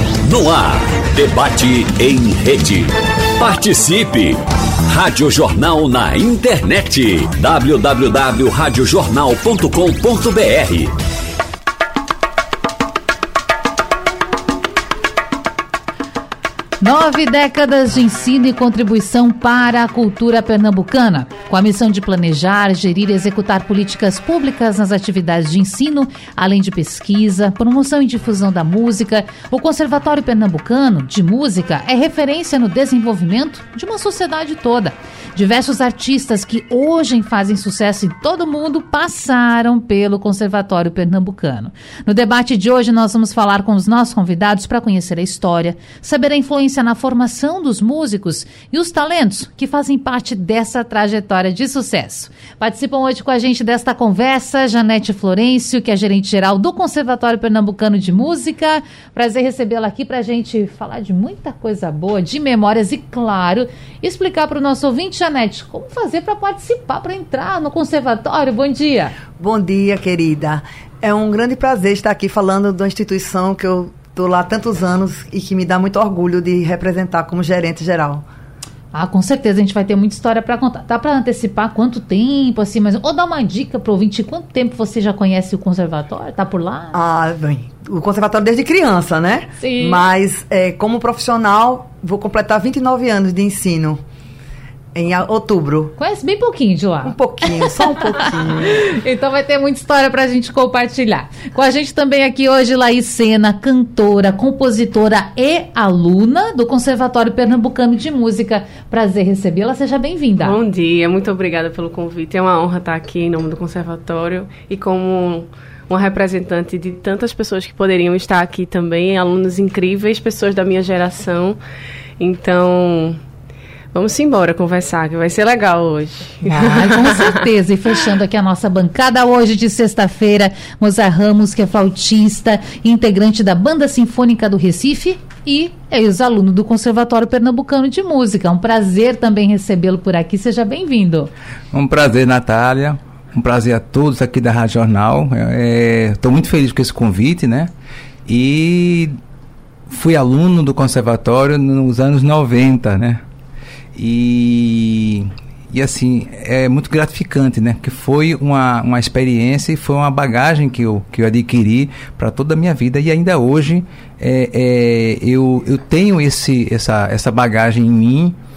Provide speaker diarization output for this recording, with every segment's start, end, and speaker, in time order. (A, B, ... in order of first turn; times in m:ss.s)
0:00.2-0:10.9 A
0:16.8-1:09.2 B
1:09.4-1:18.2 C
1:18.9-1:27.0 B
1:26.9-1:34.0 C
1:29.6-1:30.0 B
1:34.9-1:35.9 C
1:36.0-1:50.6 B
1:37.0-1:38.9 C
1:50.4-2:01.6 D
2:02.2-2:03.2 D
2:03.9-2:07.4 D
2:06.4-2:21.3 B
2:21.7-2:27.7 E
2:28.2-2:29.2 E
2:29.9-2:33.2 E
2:33.9-2:48.3 E